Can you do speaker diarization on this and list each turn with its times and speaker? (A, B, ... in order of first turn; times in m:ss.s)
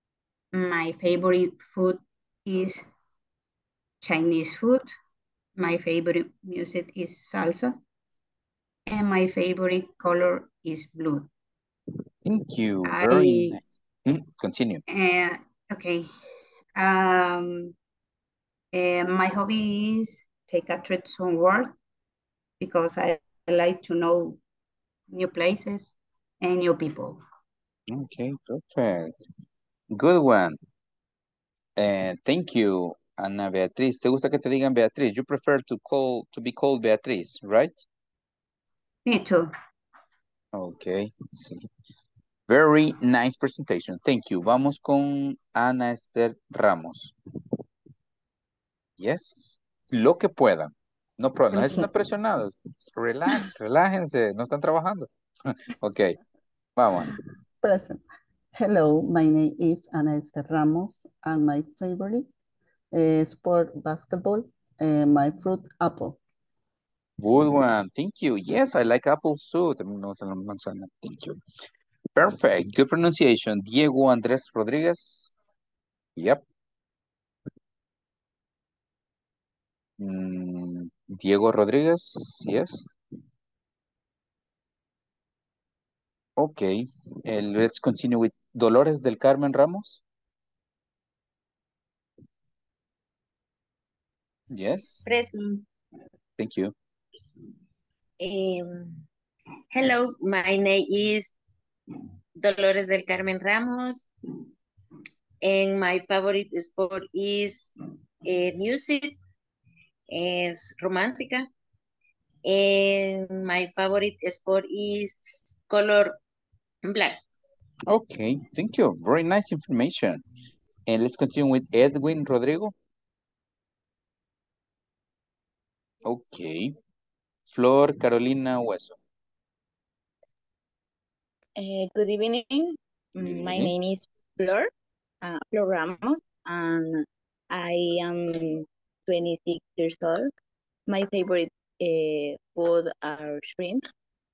0:00.5-0:02.8 A
0:04.0-0:04.9 A
0:05.6-0:07.8 A
0:08.9-0:11.3 A
0:12.2-0:14.8 B
0:12.8-0:13.6 A
0:14.9-0:16.1 A
0:16.8-0:17.7 A
0:18.7-0:21.7 A
0:22.6-0:24.4 A
0:25.1-0:27.2 A
0:27.9-0:29.2 B
0:29.9-0:30.6 B
0:31.8-0:37.8 B
0:39.0-0:39.5 A
0:40.5-0:41.7 B
0:42.5-0:47.2 B
0:49.0-0:49.4 B
0:49.9-0:56.2 B
0:56.8-0:57.1 B
0:57.6-0:58.0 C
0:58.6-1:02.3 C
1:02.9-1:06.2 C
1:07.2-1:11.4 B
1:12.2-1:15.4 B
1:16.2-1:16.4 B
1:20.0-1:22.9 B
1:26.4-1:30.0 B
1:34.5-1:35.1 B
1:35.0-1:35.7 D
1:36.4-1:36.7 B
1:38.2-1:38.8 D
1:39.7-1:41.4 D
1:42.4-1:44.1 D
1:45.4-1:49.2 D
1:50.1-1:51.5 D
1:52.4-1:56.2 D
1:56.8-1:57.2 D
1:57.9-2:00.2 B
2:00.9-2:02.7 B
2:06.0-2:06.7 B
2:07.5-2:09.0 B
2:11.6-2:14.7 E
2:13.2-2:13.7 B
2:15.2-2:20.3 E
2:20.9-2:23.9 E